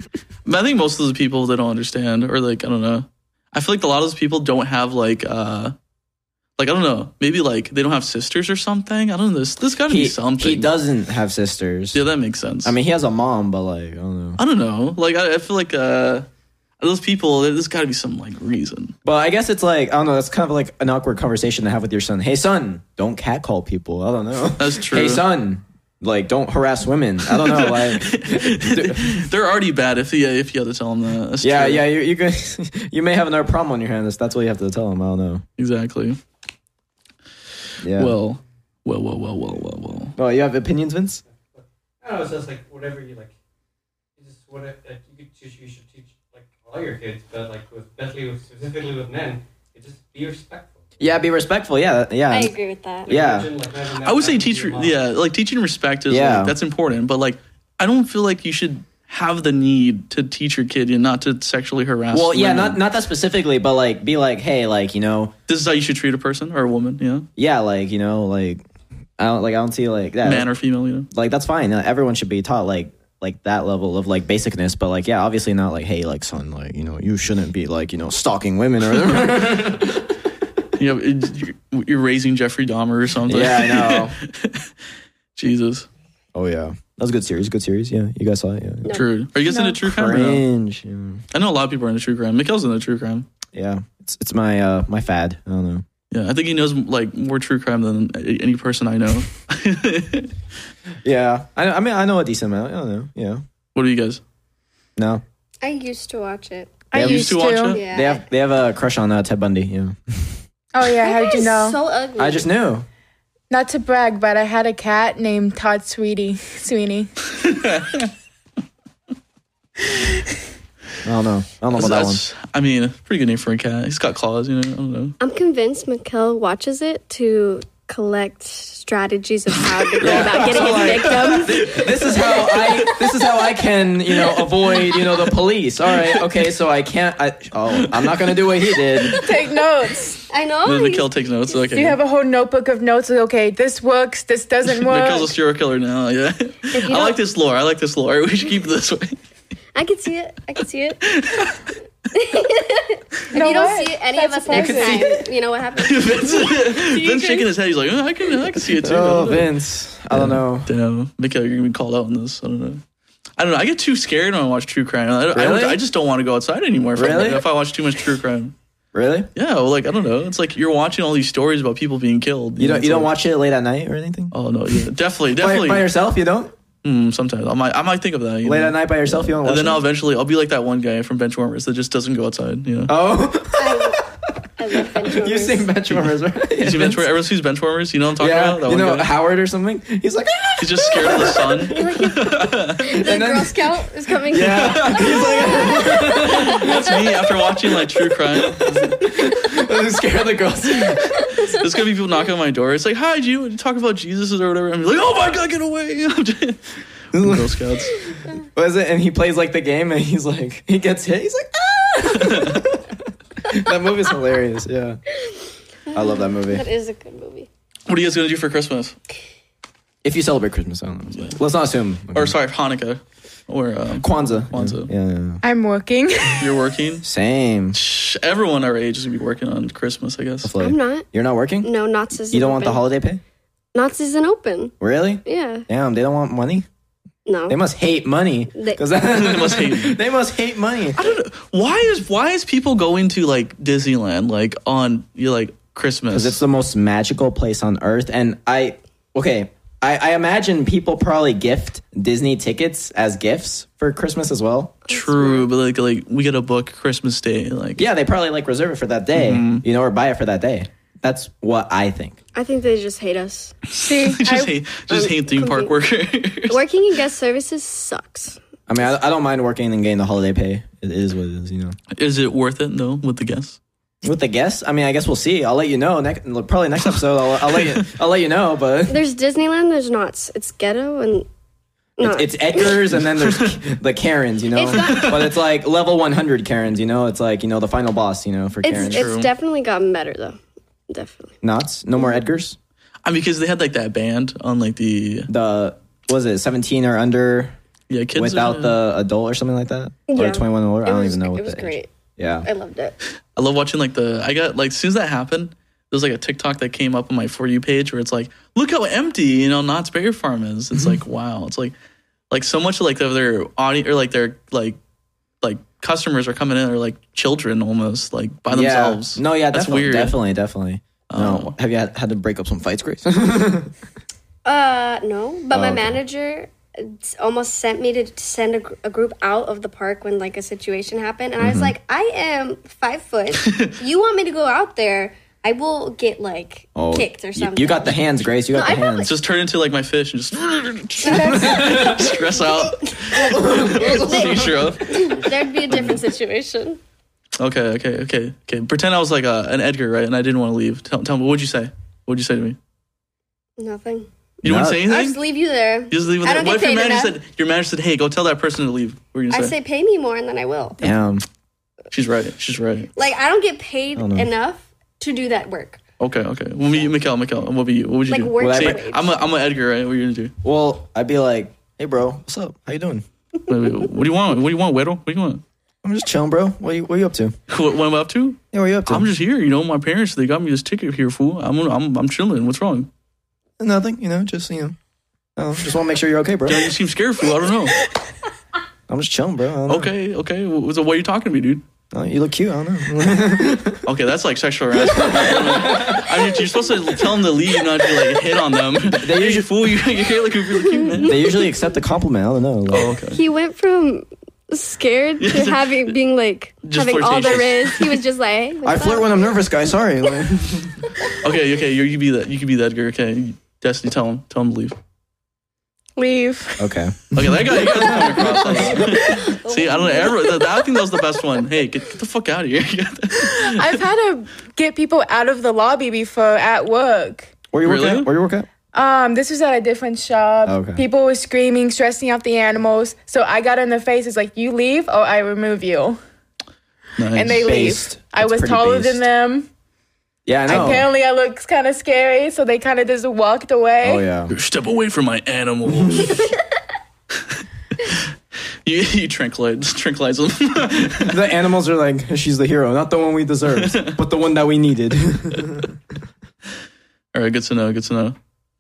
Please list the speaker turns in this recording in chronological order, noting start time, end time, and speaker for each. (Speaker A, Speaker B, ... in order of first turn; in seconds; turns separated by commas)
Speaker A: 0.5-5.8, Speaker A: 6.6-10.7, Speaker B: 9.9-12.0, Speaker A: 11.9-12.8, Speaker B: 12.6-14.4, Speaker A: 14.4-16.3, Speaker A: 16.8-18.9, Speaker B: 19.1-29.3, Speaker A: 24.6-25.3, Speaker A: 27.3-31.9, Speaker B: 31.4-35.4, Speaker A: 35.6-36.2, Speaker B: 37.8-38.1, Speaker A: 38.0-40.2, Speaker B: 40.2-41.2, Speaker C: 41.3-43.3, Speaker C: 44.2-50.8, Speaker B: 51.0-52.5, Speaker D: 52.3-53.1, Speaker C: 53.0-55.0, Speaker B: 53.1-53.5, Speaker A: 54.0-62.8, Speaker B: 56.1-56.6, Speaker B: 62.1-65.3, Speaker A: 65.5-67.3, Speaker B: 67.4-68.6, Speaker B: 69.2-70.5, Speaker A: 70.2-71.1, Speaker B: 71.1-80.0, Speaker A: 80.8-84.7, Speaker B: 83.3-84.2, Speaker A: 85.4-85.9, Speaker B: 86.3-89.0, Speaker A: 88.9-90.4, Speaker E: 89.5-89.8, Speaker B: 89.8-91.2, Speaker A: 91.3-93.3, Speaker B: 93.5-95.8, Speaker A: 96.1-100.3, Speaker B: 101.0-103.4, Speaker A: 103.8-104.2, Speaker B: 105.0-105.2, Speaker D: 105.6-106.9, Speaker E: 106.9-107.8, Speaker A: 106.9-107.8, Speaker B: 107.0-107.3, Speaker D: 107.7-108.2, Speaker B: 107.9-110.3, Speaker E: 110.7-111.8, Speaker D: 111.0-112.5, Speaker B: 112.2-112.9, Speaker E: 113.5-117.1, Speaker A: 117.4-118.1, Speaker B: 121.0-122.2, Speaker A: 121.7-125.2, Speaker D: 125.2-133.0, Speaker A: 130.0-133.0, Speaker B: 130.0-139.2, Speaker A: 134.2-135.3, Speaker A: 136.0-136.2, Speaker A: 137.7-139.4, Speaker E: 139.2-140.2, Speaker D: 140.3-141.1, Speaker A: 140.6-142.0, Speaker E: 141.7-145.3, Speaker A: 144.7-149.2, Speaker D: 146.7-147.2, Speaker D: 149.8-151.2, Speaker A: 151.1-151.7, Speaker D: 152.1-157.4, Speaker E: 153.3-155.2, Speaker B: 154.5-155.2, Speaker A: 155.8-159.6, Speaker B: 158.8-160.7, Speaker A: 160.1-162.8, Speaker A: 163.4-168.6, Speaker B: 165.3-165.8, Speaker B: 166.9-167.4, Speaker B: 168.9-169.3, Speaker A: 169.3-173.1, Speaker B: 172.6-174.3, Speaker A: 174.3-175.9, Speaker B: 175.4-176.5, Speaker A: 176.8-182.9, Speaker B: 178.4-179.8, Speaker B: 182.9-184.0, Speaker D: 183.6-185.7, Speaker B: 184.8-187.1, Speaker A: 185.9-189.1, Speaker B: 188.2-191.8, Speaker A: 190.6-193.0, Speaker D: 191.7-196.8, Speaker B: 192.9-193.8, Speaker B: 194.3-197.0, Speaker A: 194.4-199.3, Speaker B: 198.4-201.2, Speaker D: 201.0-201.5, Speaker A: 201.4-206.6, Speaker B: 207.1-207.6, Speaker A: 207.1-208.0, Speaker B: 208.4-215.0, Speaker A: 212.1-212.7, Speaker D: 215.9-217.5, Speaker B: 215.9-216.7, Speaker A: 217.9-219.0, Speaker B: 220.0-222.3, Speaker A: 221.1-221.4, Speaker A: 222.1-224.9, Speaker B: 224.0-225.4, Speaker E: 225.4-226.6, Speaker A: 226.4-227.1, Speaker B: 227.0-227.8, Speaker A: 227.7-230.5, Speaker B: 230.4-231.7, Speaker D: 230.6-231.1, Speaker D: 231.6-232.8, Speaker B: 232.3-233.2, Speaker D: 233.8-234.7, Speaker B: 234.8-236.7, Speaker D: 235.2-235.7, Speaker D: 237.3-237.6, Speaker B: 237.5-241.1, Speaker D: 238.6-238.8, Speaker A: 239.1-240.0, Speaker A: 241.0-246.4, Speaker B: 246.1-254.8, Speaker D: 254.9-255.5, Speaker A: 254.9-257.9, Speaker B: 257.8-262.2, Speaker A: 259.1-259.6, Speaker D: 262.4-263.6, Speaker A: 263.7-266.6, Speaker E: 263.8-264.5, Speaker D: 264.9-265.7, Speaker D: 266.5-268.4, Speaker B: 268.7-271.8, Speaker A: 271.9-273.6, Speaker B: 274.0-279.0, Speaker D: 278.9-281.3, Speaker D: 282.0-282.8, Speaker B: 282.0-289.1, Speaker A: 283.0-283.6, Speaker D: 284.5-285.3, Speaker A: 284.7-285.3, Speaker D: 288.6-290.4, Speaker A: 288.7-289.3, Speaker D: 290.9-291.4, Speaker B: 291.4-292.6, Speaker A: 293.1-295.3, Speaker B: 295.3-297.6, Speaker A: 297.9-298.8, Speaker B: 298.1-302.5, Speaker D: 300.1-301.9, Speaker D: 302.4-303.0, Speaker A: 303.4-311.7, Speaker A: 312.3-314.8, Speaker A: 315.4-320.2, Speaker B: 318.5-323.7, Speaker A: 321.1-321.6, Speaker D: 324.4-339.1, Speaker B: 325.5-326.0, Speaker B: 331.4-331.7, Speaker A: 333.4-333.7, Speaker B: 336.8-339.1, Speaker A: 339.0-346.0, Speaker E: 341.1-341.7, Speaker D: 341.1-341.8, Speaker B: 341.3-342.1, Speaker B: 343.1-344.7, Speaker D: 343.7-346.8, Speaker A: 347.4-352.6, Speaker D: 353.6-354.1, Speaker A: 354.4-355.2, Speaker B: 354.4-354.8, Speaker D: 354.7-357.1, Speaker A: 355.9-359.6, Speaker D: 359.3-360.8, Speaker B: 360.8-361.2, Speaker A: 361.9-362.9, Speaker D: 363.0-365.8, Speaker B: 364.0-364.3, Speaker A: 366.0-370.4, Speaker D: 368.1-369.2, Speaker B: 368.4-368.8, Speaker B: 370.4-373.0, Speaker A: 373.5-375.4, Speaker B: 375.8-377.4, Speaker A: 377.5-382.9, Speaker B: 378.5-379.1, Speaker B: 383.6-384.8, Speaker B: 385.4-386.8, Speaker A: 386.5-387.8, Speaker B: 388.9-389.9, Speaker A: 389.7-391.6, Speaker B: 391.9-393.8, Speaker A: 393.8-401.2, Speaker B: 394.8-396.2, Speaker B: 398.8-399.5, Speaker D: 400.7-401.7, Speaker B: 401.0-402.9, Speaker A: 402.7-403.2, Speaker D: 403.1-409.2, Speaker A: 405.2-405.9, Speaker A: 406.6-408.0, Speaker B: 408.6-410.9, Speaker A: 411.2-414.8, Speaker E: 416.0-416.7, Speaker B: 416.6-418.6, Speaker A: 417.1-423.8, Speaker E: 417.9-418.2, Speaker D: 418.7-420.5, Speaker E: 423.2-427.3, Speaker B: 427.5-428.5, Speaker A: 427.6-428.1, Speaker E: 428.7-436.0, Speaker B: 430.4-430.8, Speaker A: 437.0-437.6, Speaker E: 437.1-439.5, Speaker B: 437.4-439.0, Speaker B: 440.3-440.9, Speaker E: 440.5-444.1, Speaker A: 440.5-440.8, Speaker B: 443.8-444.3, Speaker A: 444.3-446.3, Speaker B: 445.7-446.1, Speaker A: 447.3-448.1, Speaker A: 448.6-451.3, Speaker B: 451.0-455.8, Speaker A: 453.5-454.0, Speaker A: 457.1-458.2